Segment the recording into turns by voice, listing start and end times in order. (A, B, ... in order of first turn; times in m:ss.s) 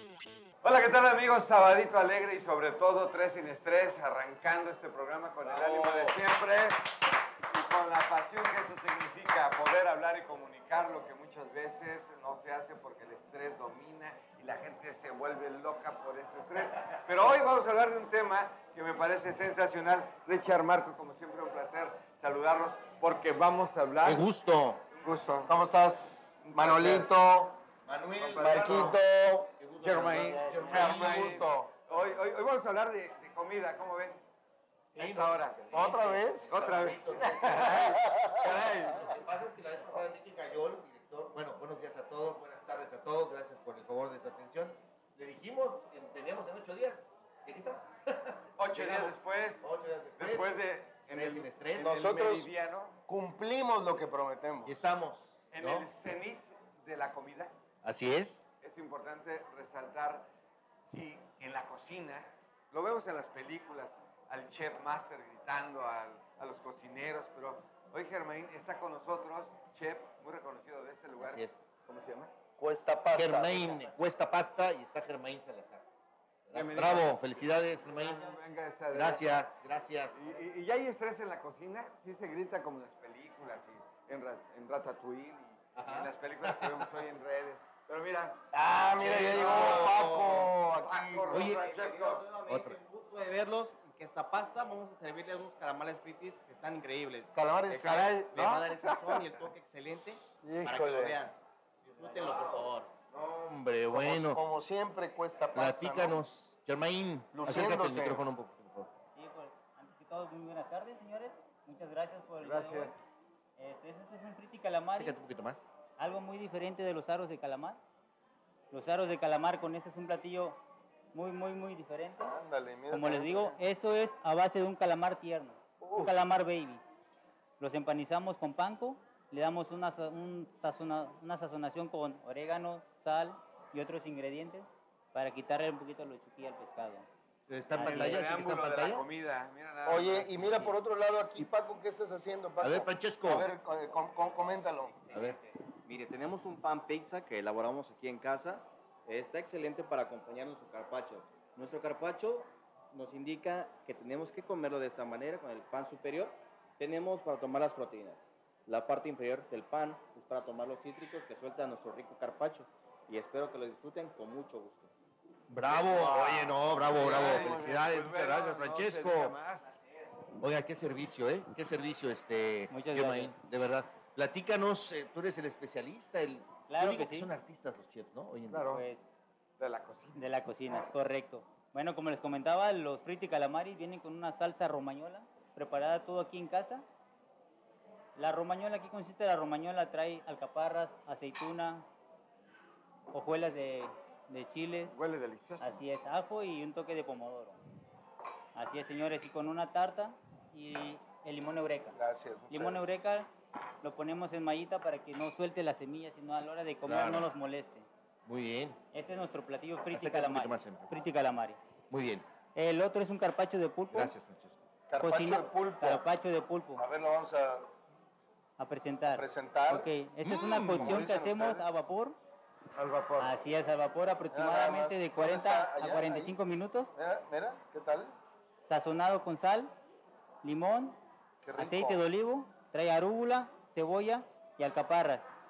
0:00.6-0:06.9 A
0:05.4-0:06.2 B
0:07.5-0:24.2 A
0:24.0-0:24.8 B
0:24.9-0:25.5 A
0:25.5-0:27.6 C
0:26.5-0:27.1 A
0:27.8-0:29.0 B
0:28.2-0:29.0 A
0:28.4-0:29.5 C
0:29.6-0:31.5 B
0:29.8-0:34.2 A
0:30.5-0:31.7 C
0:34.9-0:35.6 A
0:34.9-0:52.0 B
0:35.7-0:36.6 C
0:36.5-0:39.1 A
0:37.2-0:39.0 C
0:48.6-0:49.6 A
0:50.2-0:53.0 A
0:51.8-0:52.5 C
0:53.1-0:54.8 C
0:54.6-0:55.9 B
0:55.5-0:57.5 A
0:57.8-0:58.4 B
0:58.6-1:00.3 A
1:00.8-1:12.3 A
1:11.2-1:11.6 B
1:12.6-1:13.9 C
1:13.1-1:15.8 B
1:16.5-1:18.3 B
1:16.5-1:19.2 A
1:18.9-1:20.2 B
1:20.1-1:28.4 A
1:25.8-1:26.9 B
1:28.5-1:31.4 C
1:29.0-1:30.5 B
1:29.0-1:30.1 A
1:30.7-1:32.2 A
1:31.3-1:32.8 B
1:31.4-1:37.3 D
1:37.3-1:38.6 C
1:37.7-1:39.4 A
1:38.3-1:42.9 D
1:40.4-1:41.2 C
1:42.0-1:44.4 B
1:43.9-1:46.2 C
1:45.5-1:48.9 B
1:47.3-1:48.2 C
1:49.2-1:52.9 E
1:52.4-1:53.0 A
1:53.6-1:55.2 E
1:54.9-1:55.6 B
1:56.0-1:57.8 E
1:58.7-2:00.6 E
2:01.1-2:02.4 E
2:02.2-2:03.6 C
2:02.9-2:06.8 E
2:05.8-2:06.2 C
2:07.6-2:17.1 E
2:17.5-2:19.0 B
2:17.7-2:18.2 E
2:17.8-2:20.7 A
2:19.8-2:25.0 C
2:22.6-2:23.5 B
2:24.8-2:44.9 D
2:25.1-2:25.4 B
2:45.5-2:49.4 B
2:45.9-2:49.8 A
2:46.9-2:47.5 C
2:50.4-2:58.7 B
2:52.7-2:53.4 E
2:56.7-2:57.3 E
2:58.5-2:58.8 A
2:58.7-2:59.0 E
2:59.6-3:00.2 A
3:00.2-3:06.8 E
3:08.2-3:11.8 E
3:13.1-3:14.9 E
3:14.9-3:15.8 A
3:15.6-3:17.6 E
3:18.5-3:22.0 E
3:21.9-3:23.1 C
3:22.5-3:23.3 E
3:23.8-3:27.8 E
3:26.8-3:27.3 B
3:28.2-3:28.8 B
3:28.9-3:31.6 E
3:29.9-3:31.0 B
3:31.9-3:32.3 B
3:32.5-3:34.1 E
3:33.9-3:34.6 B
3:34.9-3:36.0 C
3:35.0-3:36.8 E
3:36.8-3:37.7 C
3:38.6-3:42.2 E
3:39.1-3:39.9 C
3:40.2-3:41.1 B
3:40.4-3:41.8 C
3:42.8-3:43.4 A
3:43.2-3:46.9 E
3:44.3-3:46.4 C
3:46.9-3:48.1 C
3:48.7-3:49.7 E
3:50.4-3:51.0 E
3:51.4-3:52.0 C
3:51.6-3:55.2 E